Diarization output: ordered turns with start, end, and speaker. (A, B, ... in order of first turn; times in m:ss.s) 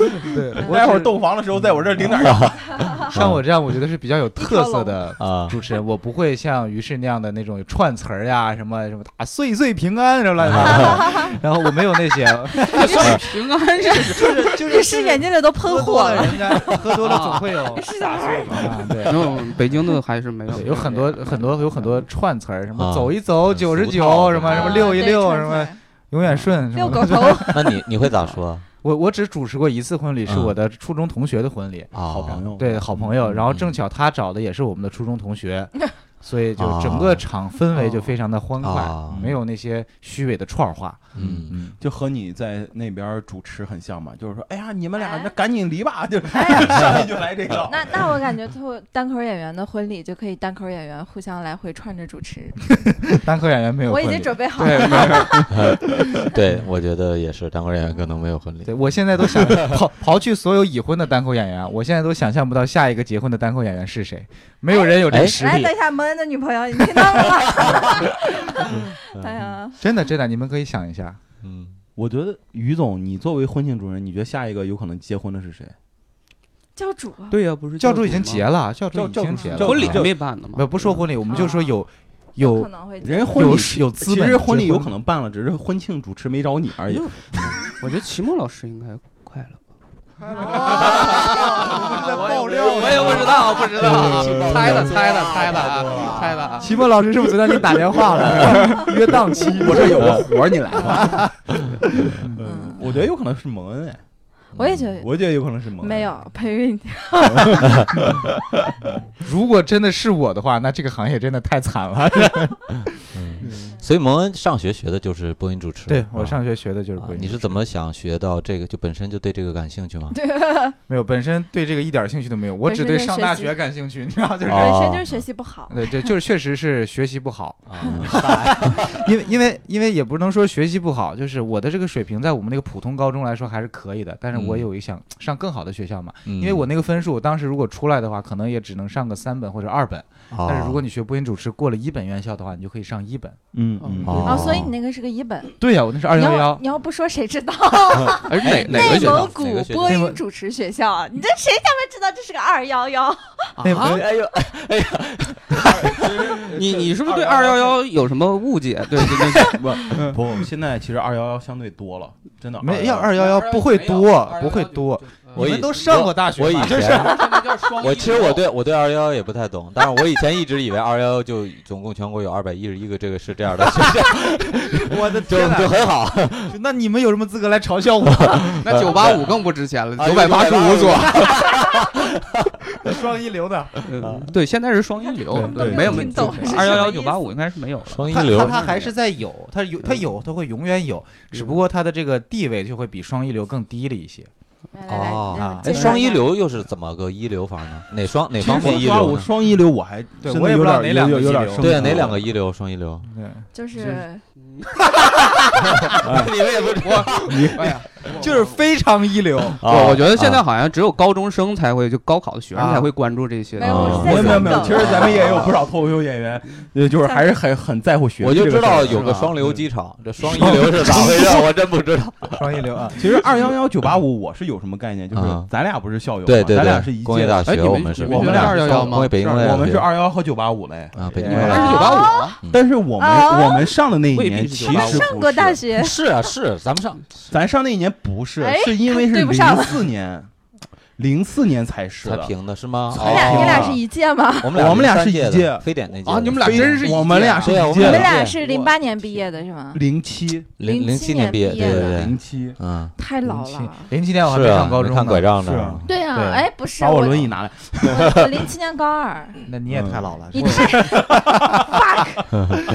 0:00.2-0:01.2 A
0:00.6-0:02.6 B
0:02.0-0:03.4 C
0:02.7-0:03.1 D
0:03.1-0:17.9 A
0:04.4-0:05.0 D
0:05.2-0:05.5 C
0:10.4-0:11.1 C
0:10.7-0:11.4 D
0:12.7-0:14.6 E
0:12.8-0:16.7 D
0:17.0-0:17.4 E
0:17.6-0:18.8 D
0:18.0-0:18.8 B
0:18.5-0:19.4 A
0:19.0-0:21.9 E
0:20.5-0:27.8 A
0:22.8-0:25.0 C
0:24.4-0:25.8 D
0:26.7-0:27.8 D
0:27.5-0:28.6 C
0:28.8-0:31.9 A
0:30.3-0:30.6 C
0:31.9-0:32.5 C
0:32.0-0:33.2 B
0:32.6-0:41.8 A
0:33.2-0:33.8 C
0:36.6-0:37.2 C
0:37.8-0:38.0 E
0:38.6-0:39.3 C
0:39.1-0:39.4 B
0:41.1-0:41.5 C
0:41.2-0:48.2 B
0:45.0-0:45.3 D
0:46.3-0:47.1 D
0:47.6-0:52.8 D
0:52.8-0:55.4 A
0:53.9-0:56.3 D
0:54.6-0:55.5 E
0:55.5-0:59.8 C
0:58.6-1:05.8 A
1:04.7-1:09.8 D
1:05.1-1:05.4 C
1:09.2-1:09.4 C
1:09.8-1:11.2 A
1:11.4-1:11.8 C
1:12.0-1:15.7 B
1:16.8-1:17.4 D
1:17.3-1:18.5 E
1:17.8-1:22.7 A
1:18.9-1:20.1 B
1:19.6-1:21.0 E
1:21.3-1:21.7 D
1:22.4-1:23.6 D
1:23.0-1:27.6 B
1:23.3-1:24.9 A
1:27.6-1:29.6 E
1:30.2-1:34.4 A
1:30.6-1:36.7 E
1:30.7-1:31.6 C
1:32.9-1:36.5 C
1:33.8-1:34.9 B
1:36.6-1:42.5 A
1:38.2-1:38.6 C
1:38.4-1:38.8 B
1:39.3-1:44.0 B
1:40.0-1:40.2 C
1:42.4-1:42.8 D
1:44.5-1:45.0 C
1:44.6-1:47.9 D
1:45.0-1:46.1 B
1:47.4-1:48.3 B
1:49.1-1:53.1 A
1:53.1-1:56.4 C
1:53.4-1:53.8 B
1:55.9-1:57.6 A
1:57.0-2:00.2 C
2:00.1-2:00.8 D
2:00.9-2:04.8 A
2:02.6-2:03.6 D
2:04.5-2:05.2 C
2:04.5-2:06.1 D
2:05.7-2:23.4 A
2:07.7-2:09.0 C
2:14.3-2:14.7 C
2:16.2-2:16.7 C
2:20.3-2:20.8 C
2:23.5-2:24.5 B
2:23.8-2:24.2 E
2:24.0-2:24.7 C
2:24.2-2:25.6 D
2:25.6-2:26.6 A
2:26.1-2:33.5 D
2:28.1-2:30.0 C
2:28.3-2:29.3 E
2:29.8-2:30.2 A
2:33.6-2:34.0 E
2:33.6-2:34.0 A
2:33.8-2:36.4 C
2:35.7-2:37.8 B
2:36.4-2:40.2 E
2:39.1-2:43.1 B
2:42.6-2:47.5 A
2:43.2-2:45.6 E
2:45.3-2:56.5 C
2:46.8-2:48.4 E
2:54.7-2:55.9 A
2:56.4-2:58.7 A
2:58.2-2:59.3 C
2:58.6-3:01.4 E
3:00.0-3:02.5 C
3:02.7-3:03.8 A
3:03.8-3:08.9 E
3:04.0-3:04.3 C
3:05.3-3:06.4 A
3:05.4-3:07.3 D
3:05.6-3:06.4 B
3:05.7-3:06.0 C
3:07.8-3:08.6 C
3:08.1-3:14.3 A
3:14.7-3:16.3 D
3:14.9-3:19.3 C
3:15.3-3:16.0 A
3:18.4-3:22.3 B
3:20.2-3:22.1 A
3:21.6-3:23.1 C
3:23.0-3:23.5 A
3:23.5-3:24.2 D
3:25.0-3:26.1 A
3:25.8-3:27.5 C
3:26.0-3:26.3 B
3:26.8-3:28.6 E
3:27.2-3:27.7 B
3:28.1-3:29.6 A
3:29.6-3:30.4 C
3:29.6-3:35.5 E
3:32.5-3:32.9 A
3:33.5-3:35.0 D
3:33.6-3:35.5 C
3:33.8-3:39.6 B
3:37.0-3:37.3 D
3:38.2-3:43.1 C
3:38.7-3:39.3 E
3:40.4-3:41.3 A
3:40.5-3:41.1 B
3:42.4-3:43.0 A
3:43.0-3:55.6 B
3:45.1-3:45.5 C
3:46.2-3:49.9 C
3:47.4-3:49.5 E
3:50.9-3:52.6 C
3:51.1-3:51.6 A
3:51.2-3:52.4 E
3:51.5-3:52.4 D
3:53.0-3:53.8 D
3:54.1-3:55.1 E
3:54.7-3:56.0 D
3:55.7-3:57.1 C
3:57.3-4:00.3 B
3:58.4-3:59.9 D
4:01.0-4:02.3 B
4:02.0-4:03.8 C
4:02.9-4:03.8 B
4:03.0-4:04.6 D
4:04.4-4:08.2 C
4:04.5-4:05.7 B
4:06.0-4:08.5 E
4:06.3-4:08.7 B
4:07.8-4:09.8 D
4:08.1-4:08.4 A
4:09.7-4:10.6 B
4:10.6-4:12.1 D
4:10.6-4:12.9 C
4:11.5-4:12.6 B
4:13.0-4:13.9 D
4:13.2-4:16.5 A
4:14.2-4:15.9 C
4:15.4-4:15.9 B
4:15.8-4:19.4 D
4:16.7-4:18.4 B
4:19.4-4:21.8 A
4:19.7-4:20.2 B
4:20.3-4:22.5 D
4:20.4-4:20.8 E